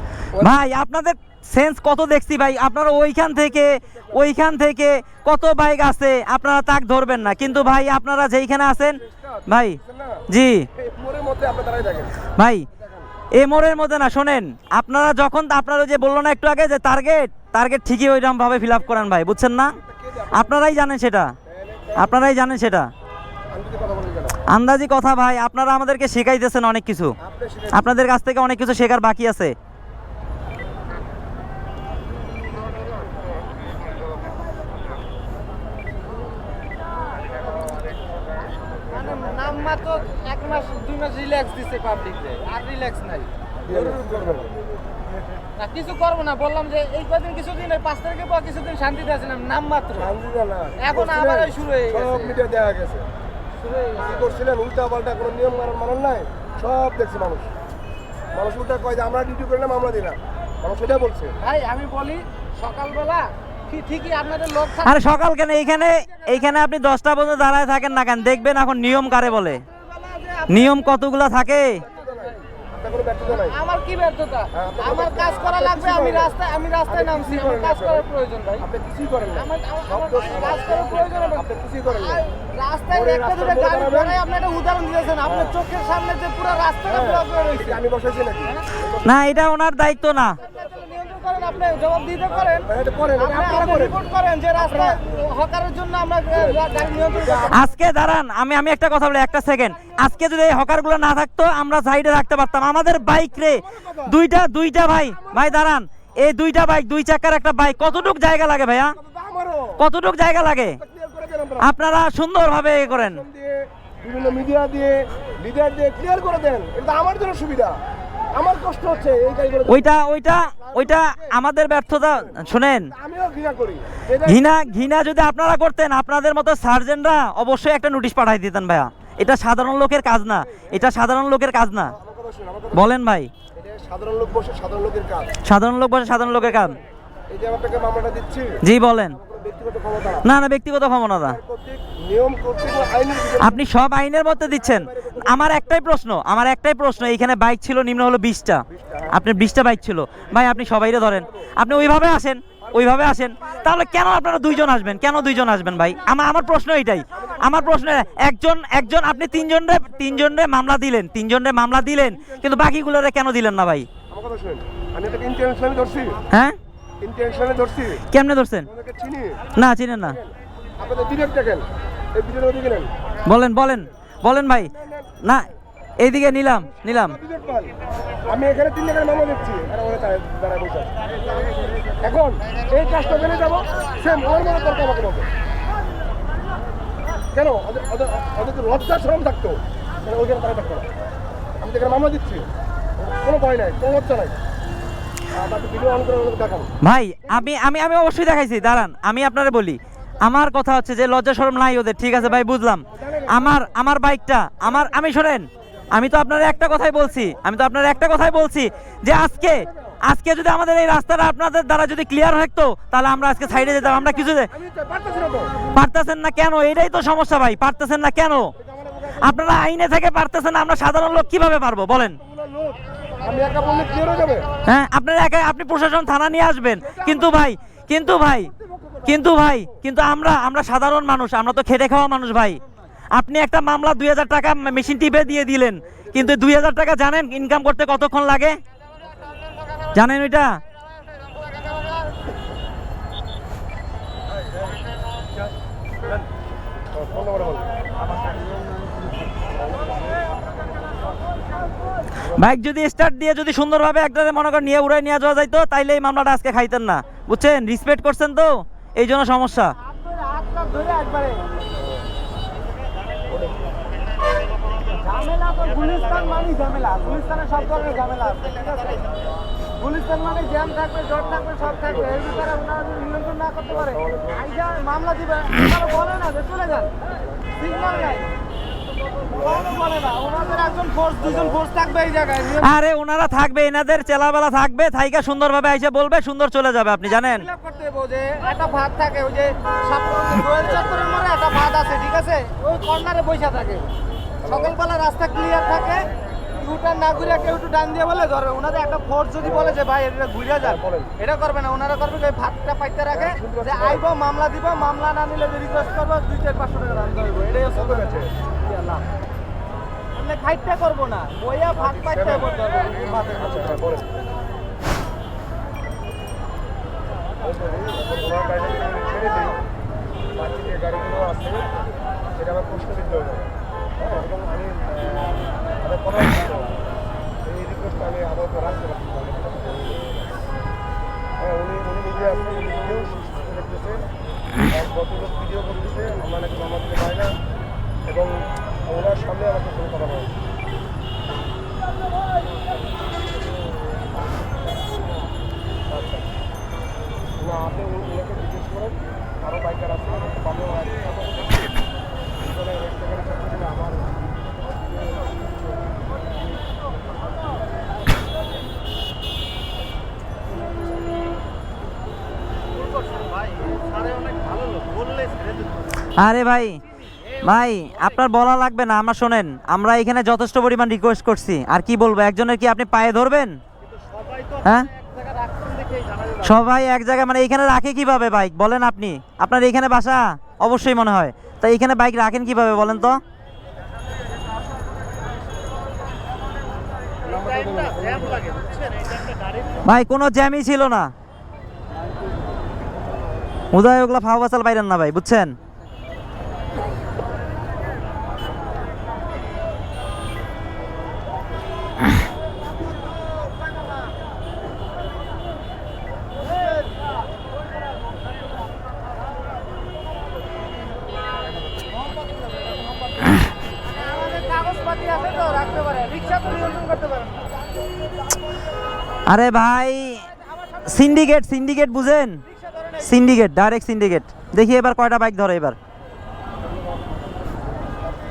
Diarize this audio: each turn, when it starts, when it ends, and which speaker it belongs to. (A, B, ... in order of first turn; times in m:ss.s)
0:00.4-0:10.7 A
0:08.9-0:12.2 B
0:12.4-0:12.7 A
0:12.8-0:13.1 B
0:13.4-0:19.8 A
0:19.7-0:20.7 B
0:20.3-0:21.3 A
0:21.5-0:22.6 B
0:22.0-0:22.9 A
0:23.5-0:24.4 B
0:24.5-0:27.2 A
0:27.2-0:27.9 B
0:27.7-0:29.5 A
0:38.9-0:43.3 C
0:43.7-0:44.6 B
0:45.6-0:50.1 C
0:50.0-0:53.1 B
0:50.8-0:52.4 C
0:53.6-0:54.3 C
0:54.0-0:57.5 B
0:58.3-1:01.4 B
1:01.4-1:05.1 C
1:04.8-1:09.6 A
1:06.1-1:06.4 C
1:10.0-1:10.8 C
1:10.5-1:11.8 A
1:11.6-1:13.6 B
1:13.2-1:18.7 C
1:14.5-1:16.3 B
1:16.9-1:18.1 B
1:18.6-1:22.2 B
1:19.4-1:27.8 C
1:22.9-1:24.2 B
1:25.2-1:25.6 B
1:26.9-1:29.2 B
1:29.0-1:30.4 A
1:30.4-1:37.7 C
1:32.3-1:34.0 B
1:34.6-1:35.0 B
1:36.3-1:37.6 B
1:37.5-1:49.0 A
1:43.4-1:44.2 B
1:45.1-1:45.6 B
1:48.9-1:49.8 B
1:49.8-1:50.8 A
1:50.8-1:51.7 B
1:51.6-1:53.2 A
1:52.8-1:57.8 B
1:58.3-1:59.9 B
1:59.7-2:02.9 A
2:00.6-2:01.4 B
2:02.2-2:04.5 B
2:04.2-2:11.9 A
2:10.5-2:10.8 B
2:11.9-2:12.9 B
2:12.7-2:13.3 A
2:13.6-2:15.4 B
2:15.5-2:16.8 A
2:17.3-2:20.3 B
2:18.6-2:19.2 A
2:20.2-2:21.4 A
2:21.2-2:23.6 B
2:23.4-2:43.9 A
2:24.4-2:25.8 B
2:28.7-2:29.2 B
2:30.3-2:31.5 B
2:32.6-2:33.7 B
2:37.1-2:38.2 B
2:39.7-2:40.4 B
2:41.9-2:42.7 B
2:44.1-2:46.2 B
2:46.3-2:46.6 A
2:47.0-2:48.0 B
2:48.1-2:48.7 A
2:48.6-2:49.5 B
2:49.6-2:50.2 A
2:50.1-2:52.9 B
2:53.3-2:54.7 A
2:54.6-2:55.2 B
2:55.2-2:55.5 A
2:56.0-2:57.2 A
2:56.8-2:57.8 B
2:58.3-3:01.3 B
3:01.8-3:05.3 B
3:07.3-3:10.9 B
3:11.6-3:12.5 B
3:13.0-3:14.4 B
3:15.3-3:16.7 B
3:16.8-3:34.5 A
3:22.9-3:23.6 B
3:29.5-3:30.0 B
3:33.6-3:35.7 B
3:35.7-3:38.5 A
3:38.6-3:39.4 B
3:39.2-3:42.2 A
3:42.2-3:44.5 B
3:44.7-3:48.5 A
3:46.8-3:47.5 B
3:48.4-3:49.8 B
3:49.1-3:52.6 A
3:53.2-3:58.6 A
3:56.0-3:56.4 B
4:00.0-4:00.5 A
4:06.9-4:07.7 B
4:12.3-4:19.7 A
4:19.9-4:21.4 C
4:23.3-4:23.7 B
4:25.0-4:29.1 C
4:29.8-4:37.0 C
4:31.2-4:32.5 B
4:33.7-4:34.5 B
4:37.6-4:38.3 C
4:39.2-4:42.7 C
4:39.3-4:39.7 B
4:41.2-4:41.6 B
4:42.4-4:47.5 A
4:47.3-4:53.9 C
4:50.4-4:51.0 B
4:54.4-4:54.8 B
4:54.4-5:09.0 C
4:59.4-4:59.8 B
5:00.6-5:01.1 B
5:03.1-5:04.0 B
5:07.7-5:08.3 B
5:10.1-5:13.8 C
5:11.8-5:14.2 B
5:17.4-5:19.6 B
5:20.4-5:21.7 B
5:22.3-5:26.8 B
5:27.4-5:30.3 B
5:31.4-5:34.1 B
5:34.7-5:37.3 B
5:38.1-5:40.3 B
5:45.9-5:46.3 B
5:47.4-5:51.7 B
5:52.4-5:54.2 B
6:03.0-6:05.6 C
6:06.2-6:06.8 A
6:07.4-6:13.6 A
6:14.0-6:16.5 C
6:14.6-6:14.9 A
6:16.4-6:23.2 A
6:27.2-6:28.6 B
6:29.8-6:31.1 A
6:33.7-6:35.5 A
6:54.0-6:57.5 C
6:59.3-7:00.3 A
7:00.8-7:02.4 A
7:02.7-7:03.0 C
7:03.0-7:05.8 A